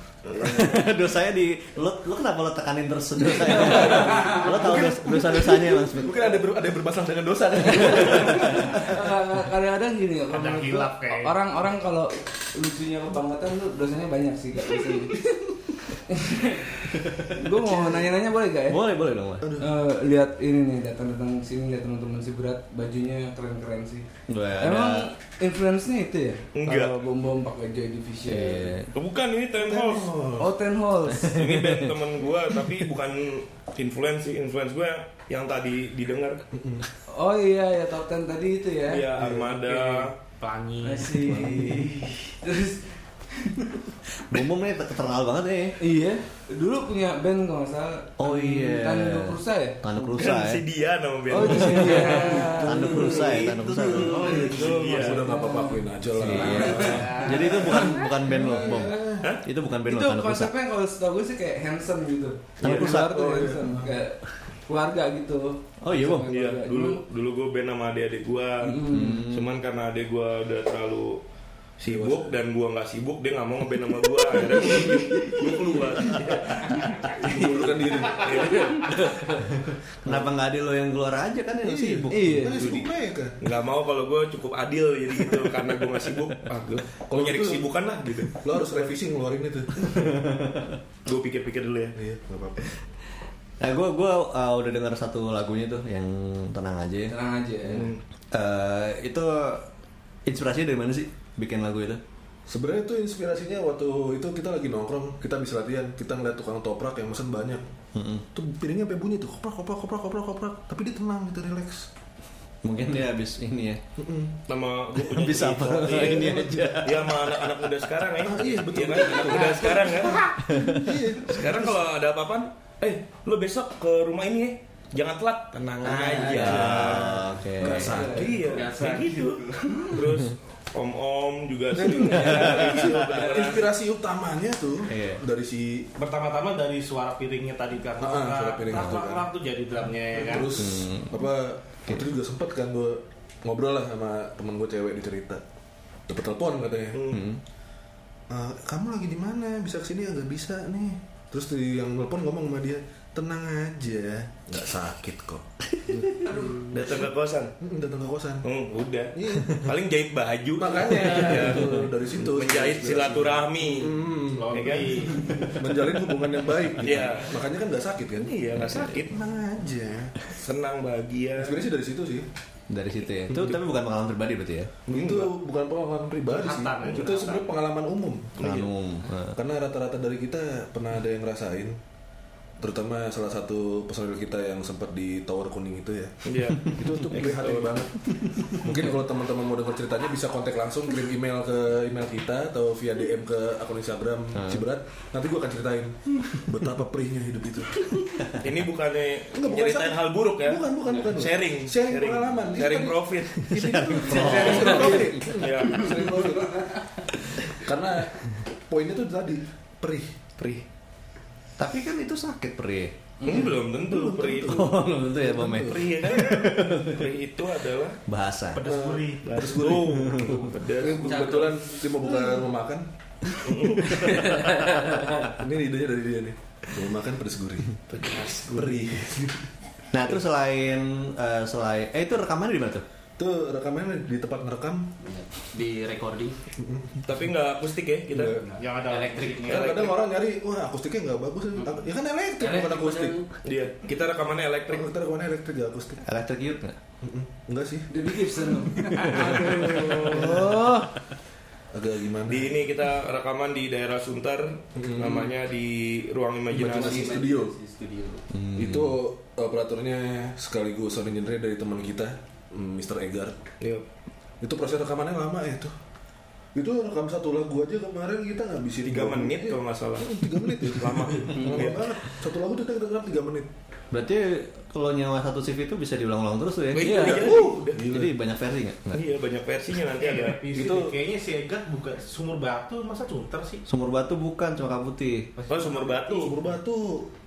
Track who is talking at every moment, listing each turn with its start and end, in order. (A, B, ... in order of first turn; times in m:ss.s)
0:00.4-0:06.4 A
0:03.3-0:08.8 B
0:07.7-0:16.8 C
0:10.3-0:11.3 D
0:17.1-0:17.9 A
0:17.3-0:18.8 C
0:18.7-0:19.5 A
0:19.4-0:19.7 B
0:19.6-0:24.1 C
0:24.3-0:25.0 A
0:24.6-0:28.7 C
0:26.6-0:26.9 E
0:28.3-0:28.9 A
0:28.9-0:30.1 E
0:29.6-0:30.5 B
0:30.4-0:31.3 C
0:31.0-0:32.0 A
0:31.3-0:36.4 E
0:36.5-0:36.8 B
0:37.1-0:39.1 C
0:38.9-0:40.1 E
0:39.2-0:39.6 B
0:39.7-0:41.2 D
0:40.8-0:43.8 C
0:41.3-0:42.0 B
0:41.5-0:41.8 A
0:44.3-0:45.8 A
0:45.8-0:49.8 C
0:48.2-0:50.6 A
0:50.1-0:52.4 E
0:51.3-0:58.0 C
0:51.6-0:54.7 A
0:52.0-0:59.2 B
0:54.8-0:55.3 E
0:56.2-1:00.5 A
0:57.0-0:57.5 D
0:59.9-1:07.0 C
1:02.6-1:03.6 A
1:02.6-1:03.9 B
1:05.8-1:06.3 A
1:06.3-1:11.2 E
1:08.6-1:09.2 C
1:08.8-1:09.5 A
1:11.8-1:17.5 E
1:11.9-1:12.4 B
1:14.3-1:14.8 B
1:14.7-1:15.6 C
1:17.2-1:18.5 B
1:18.1-1:19.2 E
1:19.6-1:22.6 A
1:20.0-1:20.3 B
1:21.6-1:23.4 B
1:22.1-1:22.7 C
1:22.6-1:28.9 E
1:27.1-1:30.1 B
1:30.0-1:30.8 A
1:31.0-1:32.0 E
1:32.0-1:32.7 B
1:33.6-1:37.1 A
1:37.1-1:37.9 C
1:37.7-1:38.0 E
1:38.3-1:39.7 A
1:40.2-1:42.0 A
1:42.5-1:47.6 B
1:47.9-1:48.2 A
1:48.3-1:51.9 B
1:52.6-1:53.8 A
1:54.0-1:54.4 B
1:54.5-2:00.3 E
1:54.9-1:57.6 A
1:58.2-2:01.8 B
2:00.5-2:01.0 A
2:01.3-2:02.5 E
2:03.1-2:09.4 E
2:05.9-2:08.6 B
2:05.9-2:06.4 F
2:06.3-2:08.3 A
2:07.7-2:08.5 C
2:08.5-2:09.9 F
2:09.9-2:13.6 E
2:11.7-2:15.9 B
2:12.1-2:12.7 A
2:14.9-2:15.2 A
2:16.0-2:20.6 D
2:18.0-2:19.2 B
2:18.7-2:19.0 A
2:20.1-2:25.4 B
2:20.5-2:21.2 A
2:26.1-2:27.2 B
2:26.9-2:27.2 E
2:27.1-2:27.4 A
2:28.3-2:37.0 B
2:35.8-2:36.0 A
2:36.7-2:37.5 E
2:37.6-2:38.4 B
2:38.4-2:43.9 E
2:39.1-2:39.7 B
2:40.6-2:44.6 B
2:44.3-2:45.4 D
2:44.5-2:45.5 E
2:45.5-2:50.1 B
2:46.8-2:47.4 E
2:48.2-2:49.1 E
2:48.6-2:49.0 A
2:50.4-2:51.6 E
2:51.4-2:52.3 B
2:52.7-2:54.7 A
2:53.3-2:53.5 B
2:54.8-2:58.3 B
2:54.9-2:55.3 E
2:56.3-2:57.5 D
2:58.4-2:58.7 E
2:58.4-2:59.4 A
2:59.3-3:01.8 B
3:02.6-3:08.0 B
3:06.2-3:07.7 E
3:08.1-3:08.6 A
3:08.5-3:18.1 B
3:14.3-3:14.7 A
3:18.4-3:23.5 E
3:19.3-3:26.6 B
3:23.5-3:25.3 A
3:24.1-3:26.1 E
3:24.1-3:24.7 C
3:27.5-3:30.1 B
3:30.4-3:30.6 E
3:31.6-3:33.0 A
3:33.2-3:34.7 E
3:33.3-3:35.9 B
3:34.4-3:37.1 A
3:35.6-3:38.0 E
3:38.1-3:38.6 A
3:38.5-3:39.3 D
3:38.6-3:42.9 B
3:39.2-3:41.4 E
3:40.0-3:40.4 A
3:40.8-3:42.4 F
3:43.4-3:44.5 E
3:45.2-3:49.4 B
3:47.9-3:48.7 E
3:49.9-3:52.8 A
3:53.2-3:54.9 B
3:55.0-3:56.4 F
3:56.6-3:57.0 B
3:57.0-3:58.4 E
3:58.1-3:58.5 B
3:58.4-3:59.7 F
3:58.6-3:59.9 D
3:59.4-4:03.2 B
4:01.6-4:01.8 F
4:02.4-4:03.2 F
4:03.4-4:04.9 E
4:04.7-4:06.0 B
4:06.0-4:06.8 A
4:07.0-4:07.9 B
4:07.9-4:10.9 C
4:09.1-4:10.5 B
4:09.5-4:10.4 E
4:11.7-4:12.6 B
4:12.3-4:17.2 E
4:14.8-4:15.3 B
4:16.5-4:17.6 B
4:16.5-4:18.2 F
4:18.3-4:19.0 A
4:18.5-4:23.3 B
4:24.4-4:25.7 B
4:26.5-4:33.5 B
4:28.8-4:31.9 E
4:33.9-4:37.1 A
4:36.7-4:37.8 E
4:36.8-4:38.1 B
4:36.8-4:37.2 C
4:37.8-4:39.0 A
4:38.9-4:40.4 E
4:40.0-4:43.6 D
4:40.5-4:41.0 B
4:43.6-4:45.3 A
4:45.4-4:46.0 D
4:45.5-4:46.3 E
4:46.0-4:47.1 B